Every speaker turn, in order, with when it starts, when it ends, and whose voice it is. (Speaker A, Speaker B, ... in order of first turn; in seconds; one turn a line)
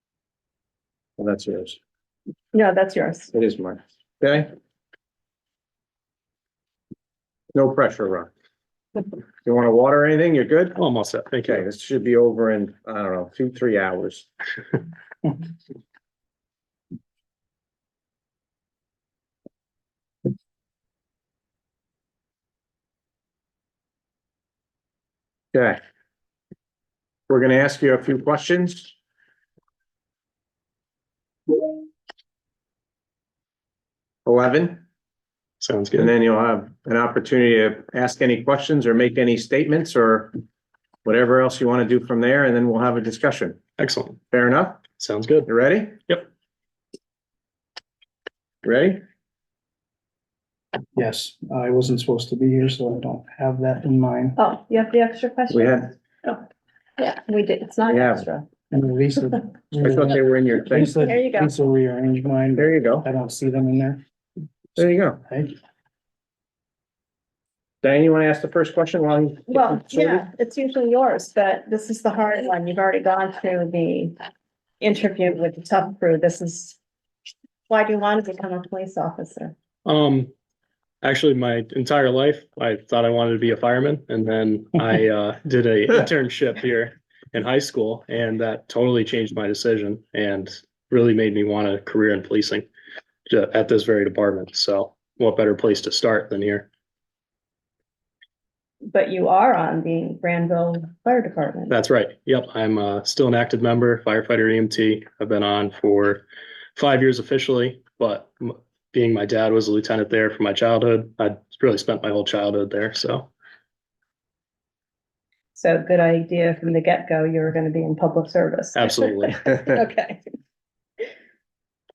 Speaker A: 1.2-1.8
Speaker B: 2.5-3.3
Speaker A: 3.3-4.5
Speaker A: 7.5-8.3
Speaker A: 9.4-10.8
Speaker C: 10.8-11.6
Speaker A: 11.4-14.3
Speaker A: 25.5-25.8
Speaker A: 27.3-28.9
Speaker A: 34.2-34.8
Speaker C: 35.6-36.1
Speaker A: 36.0-40.4
Speaker A: 41.0-43.6
Speaker C: 43.8-44.2
Speaker A: 44.3-44.8
Speaker C: 45.0-45.5
Speaker A: 45.5-46.0
Speaker A: 48.6-49.0
Speaker D: 51.0-54.4
Speaker B: 54.4-56.4
Speaker A: 55.5-55.9
Speaker B: 57.0-58.5
Speaker A: 57.9-58.2
Speaker D: 58.7-64.0
Speaker A: 59.8-61.0
Speaker B: 61.0-61.5
Speaker A: 62.5-63.1
Speaker A: 64.8-65.2
Speaker D: 65.3-65.5
Speaker A: 67.8-70.2
Speaker B: 69.5-74.1
Speaker B: 74.8-76.8
Speaker B: 77.7-79.5
Speaker C: 79.8-80.3
Speaker C: 81.0-92.7
Speaker C: 93.3-96.7
Speaker B: 98.9-101.8
Speaker C: 101.7-106.2
Speaker C: 106.8-113.3
Speaker B: 115.5-120.2
Speaker C: 118.8-119.4